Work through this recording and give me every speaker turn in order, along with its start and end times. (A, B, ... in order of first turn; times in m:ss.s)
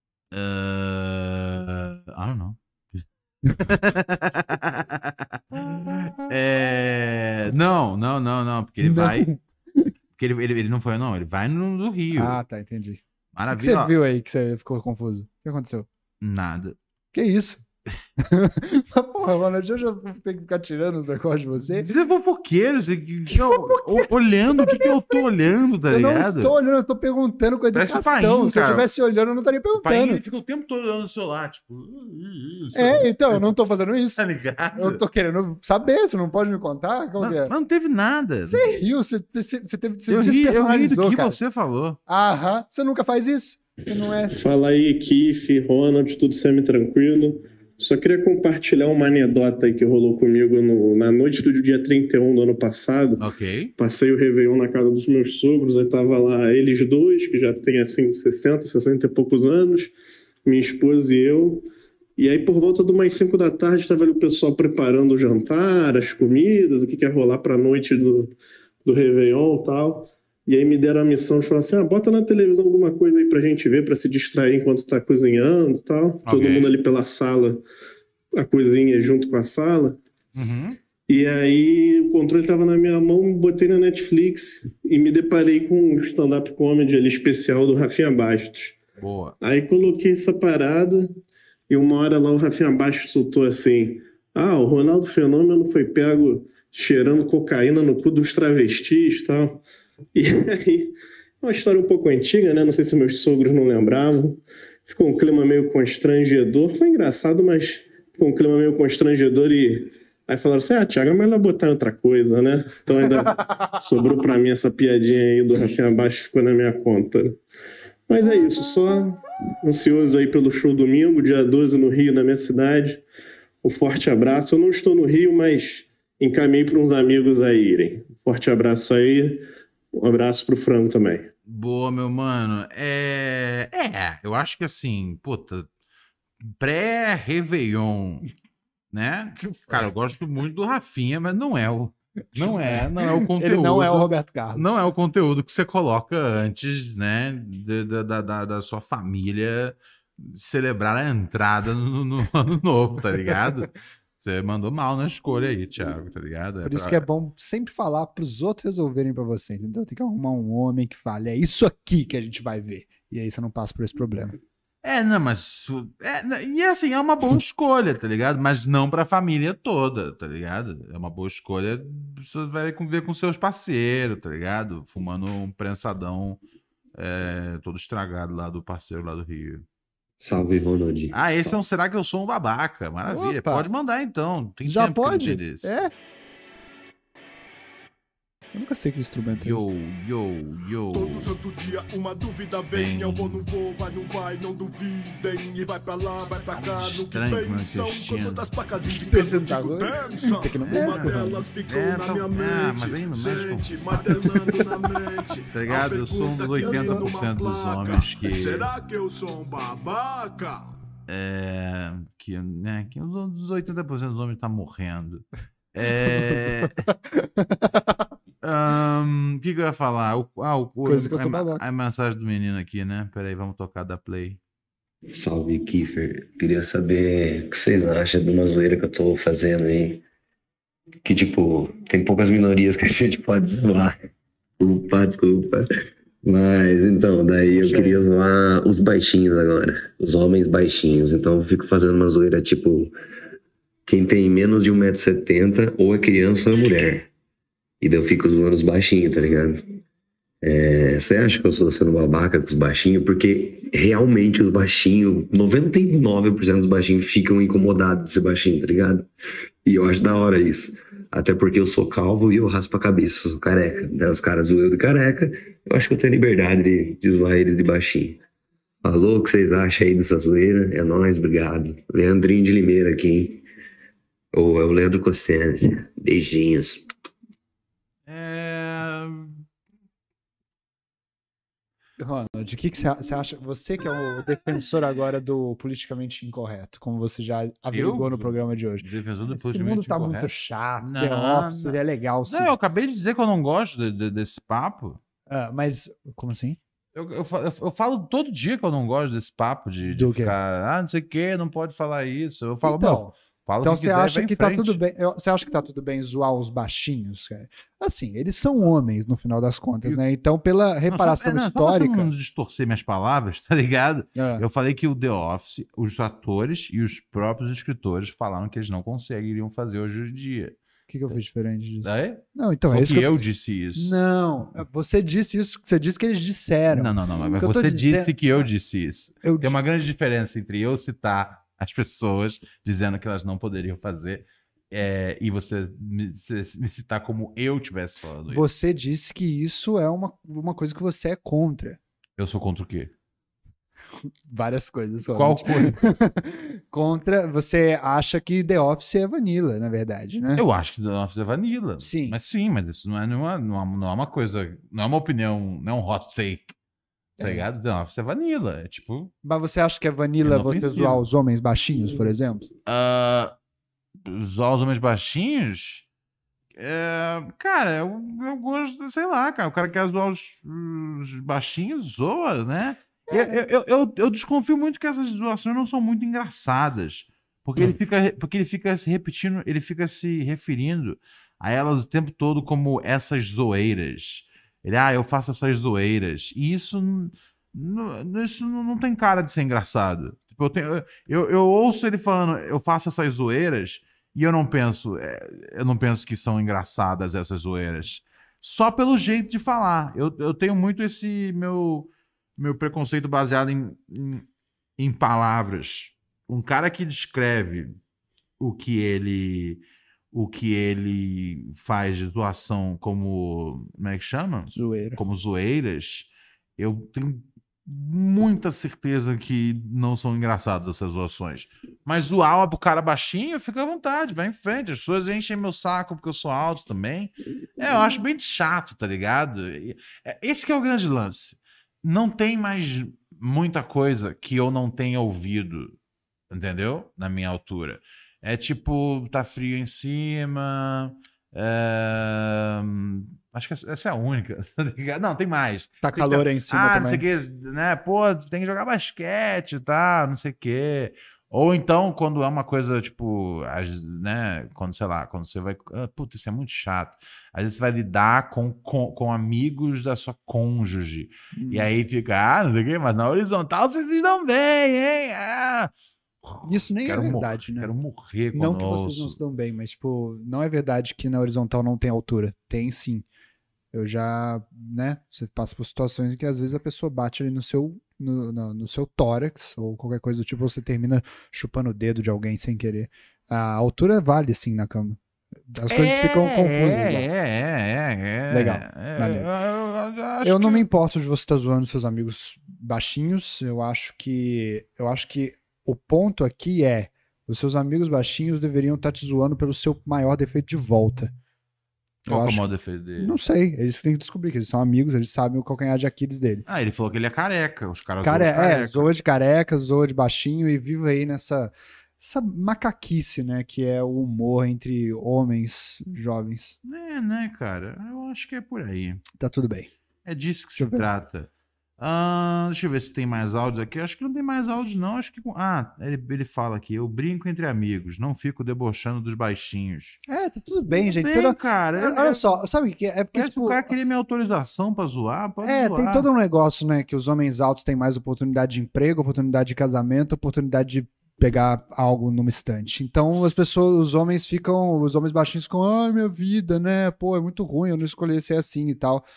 0:00.3-0:09.3 A
0:08.8-0:09.9 B
0:10.2-0:12.4 A
0:12.1-0:15.9 B
0:13.3-0:13.9 A
0:16.2-0:16.8 A
0:17.1-0:17.6 B
0:18.2-0:21.9 B
0:21.7-0:26.6 A
0:23.3-0:25.2 B
0:25.9-0:30.2 B
0:27.7-0:28.9 A
0:29.8-0:33.5 A
0:32.7-0:37.5 B
0:34.2-0:35.0 A
0:37.2-0:38.7 A
0:38.5-0:41.4 B
0:40.1-0:42.0 A
0:42.1-0:44.4 B
0:44.4-0:53.2 C
0:53.2-0:53.7 A
0:53.8-0:59.9 C
1:00.4-1:01.6 C
1:02.2-1:17.6 C
1:16.2-1:16.7 A
1:18.3-1:20.0 C
1:20.4-1:20.8 A
1:21.1-1:28.8 C
1:29.0-1:29.4 A
1:29.4-1:31.1 C
1:31.7-1:39.6 C
1:40.2-1:57.4 C
1:58.1-2:03.0 C
2:03.6-2:11.3 C
2:11.5-2:15.7 A
2:16.4-2:18.3 A
2:18.9-2:37.1 A
2:19.4-2:19.9 B
2:22.4-2:24.6 B
2:36.6-2:44.4 B
2:44.8-2:56.4 A
2:57.0-2:59.6 A
3:00.2-3:01.6 D
3:01.1-3:05.8 A
3:03.1-3:03.7 B
3:04.6-3:05.9 B
3:08.5-3:09.7 B
3:09.4-3:11.3 A
3:10.9-3:30.8 E
3:12.7-3:13.5 A
3:16.6-3:18.5 A
3:19.0-3:21.5 B
3:20.7-3:24.6 A
3:25.5-3:28.7 A
3:26.6-3:27.1 B
3:31.1-3:36.8 A
3:36.7-3:38.0 B
3:38.4-3:44.4 A
3:40.8-3:41.6 B
3:45.1-3:50.0 D
3:51.0-3:54.0 D
3:54.6-3:55.7 D
3:56.2-4:02.9 D
3:57.6-3:57.9 B
4:03.9-4:07.1 D
4:07.8-4:09.6 D
4:10.4-4:19.1 D
4:19.6-4:28.2 D
4:28.8-4:33.4 D
4:34.3-4:36.9 D
4:38.1-4:39.4 A
4:42.0-4:52.6 B
4:47.7-4:55.0 A
4:55.3-4:56.6 B
4:56.9-5:04.8 A
4:59.8-5:00.4 B
5:02.6-5:12.1 B
5:10.9-5:20.6 A
5:14.2-5:14.4 B
5:20.9-5:28.5 B
5:21.8-5:23.9 A
5:26.7-5:38.4 A
5:29.2-5:29.6 B
5:38.3-5:41.8 B
5:42.2-5:42.9 A
5:44.3-5:50.4 B
5:45.2-5:46.0 A
5:50.4-5:56.5 A
5:51.8-5:52.2 B
5:57.2-5:57.5 B
5:57.2-5:59.1 A
5:59.2-6:02.4 B
6:00.2-6:01.0 A
6:02.7-6:03.3 A
6:04.0-6:05.9 A
6:06.6-6:44.3 A
6:13.1-6:13.4 B
6:44.8-6:47.8 A
6:48.4-7:15.8 A
6:54.5-6:55.0 B
7:16.3-7:49.2 A
7:25.8-7:27.0 B
7:41.3-7:41.7 B
7:46.4-7:47.7 B
7:48.3-7:53.1 B
7:53.7-8:07.1 B
8:05.7-8:10.7 A
8:08.3-8:09.3 B
8:10.2-8:21.1 B
8:22.1-8:22.4 B
8:22.1-8:23.2 A
8:23.0-8:26.4 B
8:26.5-8:28.9 A
8:28.0-8:36.6 B
8:36.6-8:39.0 A
8:39.2-8:39.7 B
8:40.0-8:50.0 A
8:40.6-8:40.9 B
8:50.1-8:53.7 B
8:50.7-8:52.4 A
8:53.1-8:56.1 A
8:55.4-9:09.0 B